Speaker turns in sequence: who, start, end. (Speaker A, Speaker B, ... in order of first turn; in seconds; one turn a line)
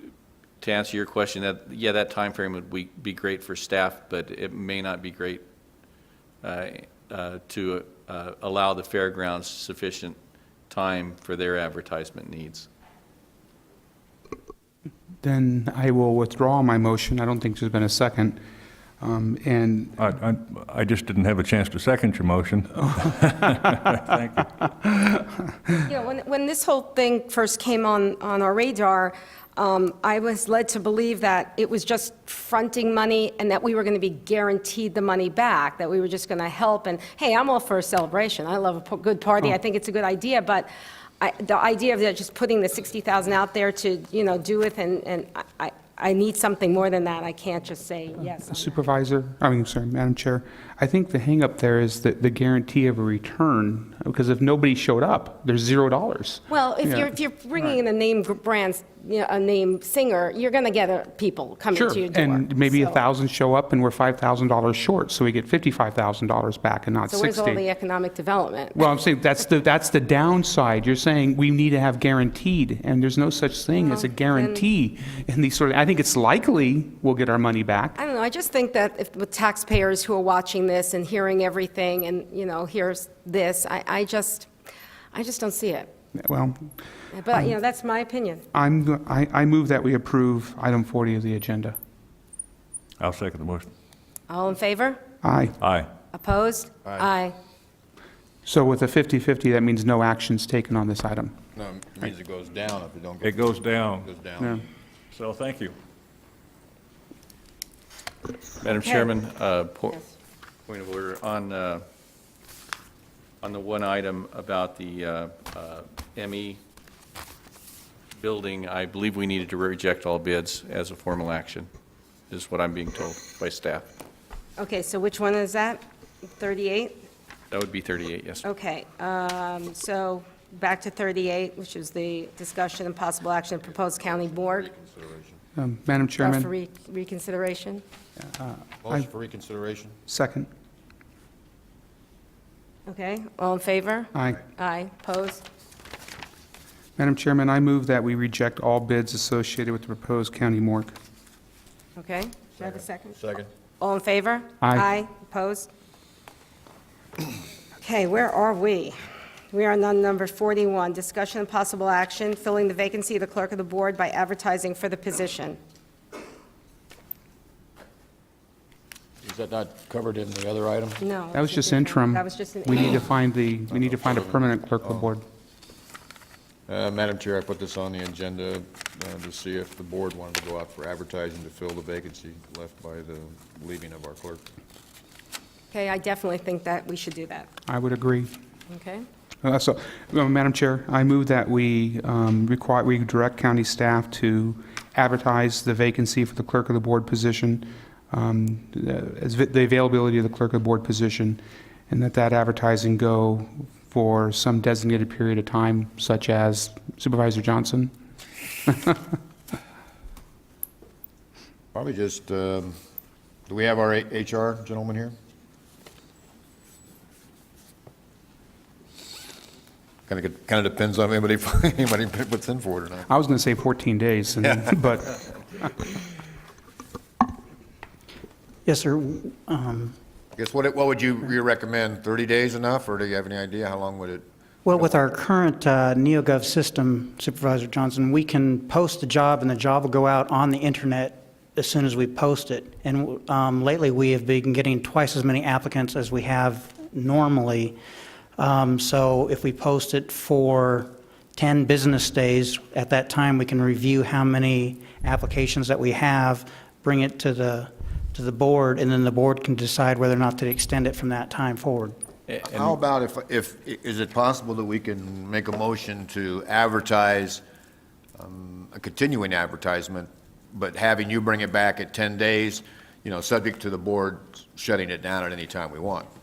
Speaker A: 0.6-5.4
Speaker A: 6.4-10.2
Speaker A: 10.7-12.7
Speaker B: 15.2-18.4
Speaker B: 19.0-20.0
Speaker C: 20.0-24.6
Speaker D: 25.9-40.7
Speaker D: 41.2-48.8
Speaker B: 48.5-57.1
Speaker D: 56.5-63.0
Speaker B: 61.7-67.6
Speaker D: 67.1-68.8
Speaker B: 68.8-78.0
Speaker D: 73.8-74.7
Speaker D: 78.0-84.5
Speaker D: 85.1-85.9
Speaker B: 86.2-86.7
Speaker D: 87.1-88.4
Speaker B: 88.5-91.8
Speaker C: 93.0-93.7
Speaker D: 94.3-95.0
Speaker B: 95.2-95.6
Speaker C: 95.6-95.9
Speaker D: 96.1-97.3
Speaker B: 98.5-101.4
Speaker E: 101.6-103.4
Speaker C: 103.2-104.1
Speaker E: 104.0-104.6
Speaker C: 105.1-105.7
Speaker A: 108.6-110.0
Speaker A: 110.7-111.8
Speaker A: 113.4-116.6
Speaker A: 118.2-121.7
Speaker A: 122.3-123.8
Speaker D: 124.6-125.8
Speaker D: 126.4-127.0
Speaker A: 127.5-128.4
Speaker D: 128.4-134.7
Speaker E: 133.8-135.4
Speaker B: 135.6-136.5
Speaker D: 136.2-137.8
Speaker B: 138.2-139.0
Speaker E: 138.8-139.9
Speaker B: 140.1-140.5
Speaker D: 142.9-145.4
Speaker B: 144.2-144.4
Speaker B: 147.0-150.9
Speaker D: 152.0-153.2
Speaker E: 152.6-153.5
Speaker D: 153.8-155.7
Speaker B: 154.6-154.9
Speaker D: 157.8-159.0
Speaker D: 159.5-165.6
Speaker E: 169.2-171.0
Speaker D: 171.0-173.1
Speaker B: 171.3-175.2
Speaker E: 173.9-174.4
Speaker E: 176.7-184.4
Speaker D: 185.7-187.5
Speaker B: 187.7-188.3
Speaker D: 188.7-189.1
Speaker B: 189.4-207.9
Speaker B: 208.7-209.0
Speaker E: 211.7-212.8
Speaker E: 213.5-215.1
Speaker E: 220.1-223.1
Speaker B: 223.1-225.7
Speaker F: 228.7-229.9
Speaker E: 230.4-234.2
Speaker F: 234.7-247.8
Speaker F: 248.4-261.9
Speaker A: 262.3-262.8
Speaker E: 262.5-267.4
Speaker E: 268.2-276.1